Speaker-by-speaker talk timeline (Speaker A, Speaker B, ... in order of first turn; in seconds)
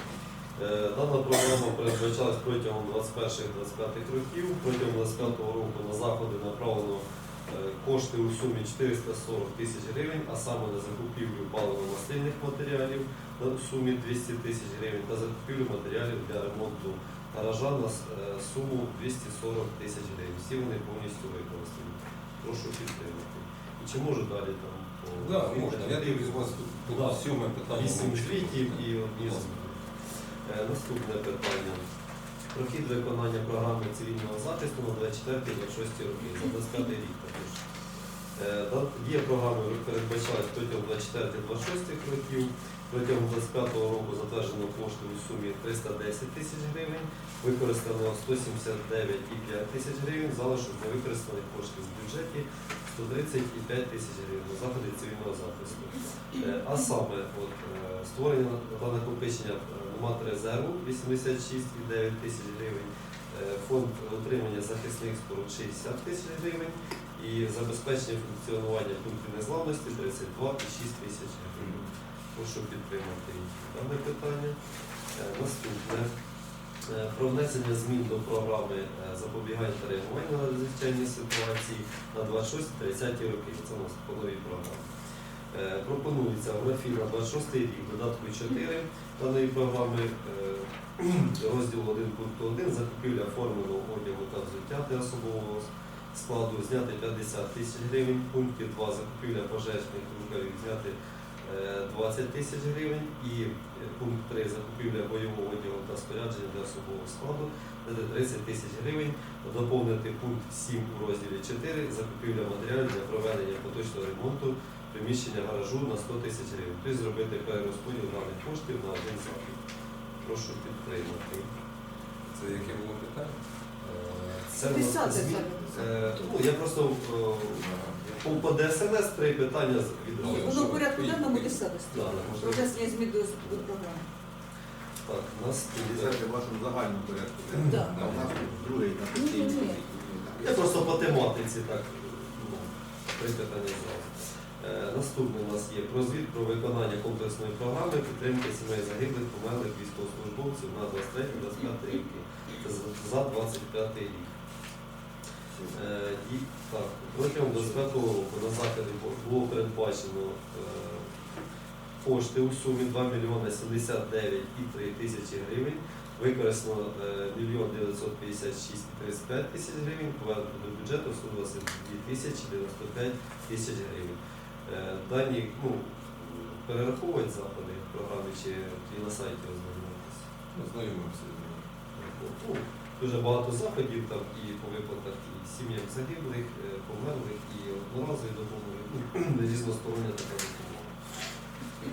Speaker A: 0.6-29.8, 30.4-31.9, 32.5-37.6, 38.4-74.6, 75.1-76.1, 76.8-84.9, 85.5-119.6, 120.2-121.5, 123.8-127.7, 128.2-130.8, 131.9-132.7, 135.1-136.2, 140.4-154.3, 155.7-161.1, 162.0-180.3, 181.9-191.0
Speaker B: 25.2-29.5, 122.3-123.4, 127.6-128.2, 130.2-131.6, 137.9-138.3, 180.5-181.7
Speaker C: 124.5-125.7, 130.2-134.1, 137.7-137.9, 139.2-139.8
Speaker D: 125.7-126.3, 135.8-141.0